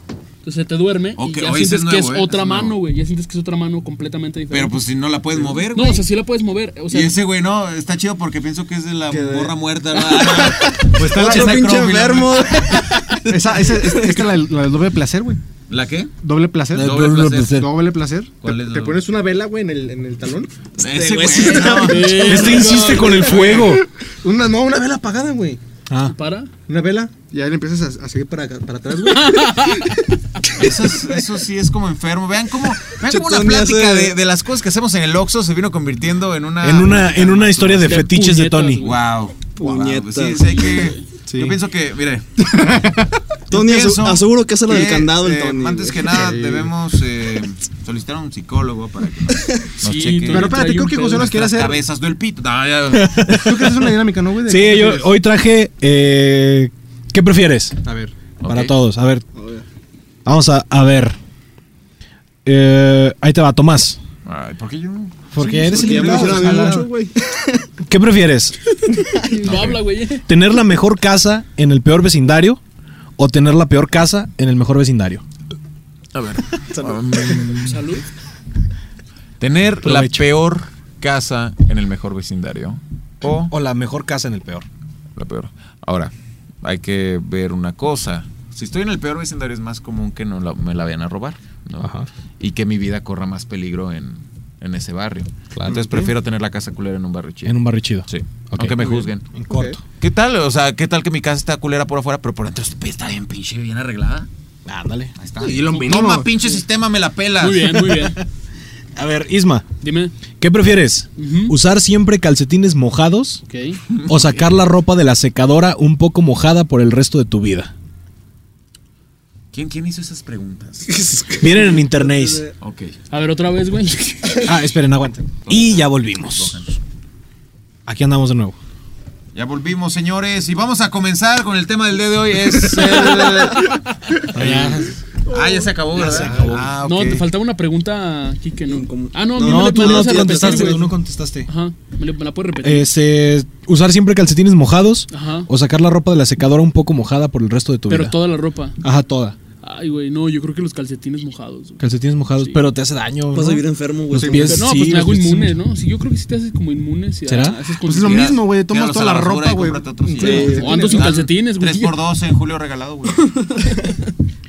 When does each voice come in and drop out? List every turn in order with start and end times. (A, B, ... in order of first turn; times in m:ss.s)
0:00.4-0:04.7 A
0:01.2-0:02.8 B
0:04.5-0:06.0 B
0:05.7-0:07.1 A
0:06.9-0:13.2 B
0:09.1-0:14.3 C
0:11.0-0:11.6 D
0:13.3-0:15.4 D
0:15.7-0:16.1 B
0:16.2-0:25.6 D
0:16.7-0:17.7 E
0:16.7-0:17.6 B
0:18.4-0:19.0 B
0:20.8-0:23.8 B
0:21.3-0:22.0 C
0:21.3-0:23.4 A
0:22.2-0:23.8 E
0:25.9-0:26.1 E
0:26.0-0:26.5 A
0:26.7-0:29.7 D
0:29.0-0:30.0 A
0:30.5-0:38.1 B
0:33.1-0:34.1 C
0:36.6-0:38.8 E
0:37.9-0:39.0 A
0:38.8-0:42.4 B
0:39.6-0:40.7 C
0:40.7-0:41.0 A
0:41.3-0:41.6 D
0:42.4-0:43.1 D
0:43.5-0:50.5 B
0:43.5-0:46.1 C
0:46.1-0:46.7 D
0:49.8-0:51.3 A
0:50.3-0:51.8 D
0:51.1-0:53.4 B
0:52.9-0:53.9 E
0:53.3-0:55.2 D
0:54.4-0:57.8 E
0:57.8-0:58.1 D
0:58.4-0:58.7 B
0:58.4-0:59.2 E
0:59.3-0:59.6 C
1:00.2-1:01.2 E
1:02.4-1:04.0 E
1:04.2-1:05.2 B
1:05.3-1:06.8 E
1:05.4-1:06.9 D
1:05.7-1:07.7 C
1:07.8-1:08.6 E
1:09.2-1:10.2 A
1:09.4-1:09.8 B
1:10.2-1:12.6 E
1:13.2-1:15.2 E
1:16.1-1:17.9 B
1:16.7-1:17.6 C
1:17.5-1:18.0 A
1:19.4-1:23.5 B
1:19.8-1:20.2 E
1:23.5-1:24.6 E
1:25.2-1:26.1 B
1:26.6-1:39.3 B
1:31.8-1:32.1 E
1:35.5-1:35.8 E
1:37.4-1:39.8 E
1:40.0-1:44.3 B
1:44.6-1:45.1 E
1:45.2-1:47.9 B
1:45.5-1:46.3 D
1:47.4-1:48.2 A
1:49.0-1:49.6 E
1:49.8-1:50.1 A
1:50.4-1:53.4 E
1:51.2-1:51.6 A
1:53.5-1:53.8 A
1:53.9-1:54.5 B
1:54.0-1:57.7 E
1:59.5-2:01.0 B
2:00.9-2:02.5 C
2:01.4-2:02.5 E
2:02.6-2:02.9 B
2:03.1-2:04.5 A
2:04.4-2:06.6 E
2:05.4-2:06.8 B
2:07.8-2:08.6 E
2:09.3-2:17.3 B
2:14.3-2:14.9 E
2:15.3-2:16.4 C
2:15.9-2:16.7 E
2:16.2-2:16.5 D
2:16.8-2:22.9 A
2:18.7-2:20.9 C
2:19.4-2:21.5 E
2:22.6-2:28.2 E
2:25.1-2:25.5 A
2:27.9-2:28.8 A
2:28.8-2:29.4 E
2:29.6-2:31.8 A
2:31.8-2:35.6 E
2:32.4-2:32.6 A
2:33.3-2:34.6 C
2:34.2-2:34.5 D
2:34.4-2:38.3 A
2:37.3-2:37.6 E
2:37.8-2:41.1 D
2:38.0-2:43.3 B
2:40.2-2:40.9 C
2:40.2-2:41.9 A
2:43.2-2:43.9 A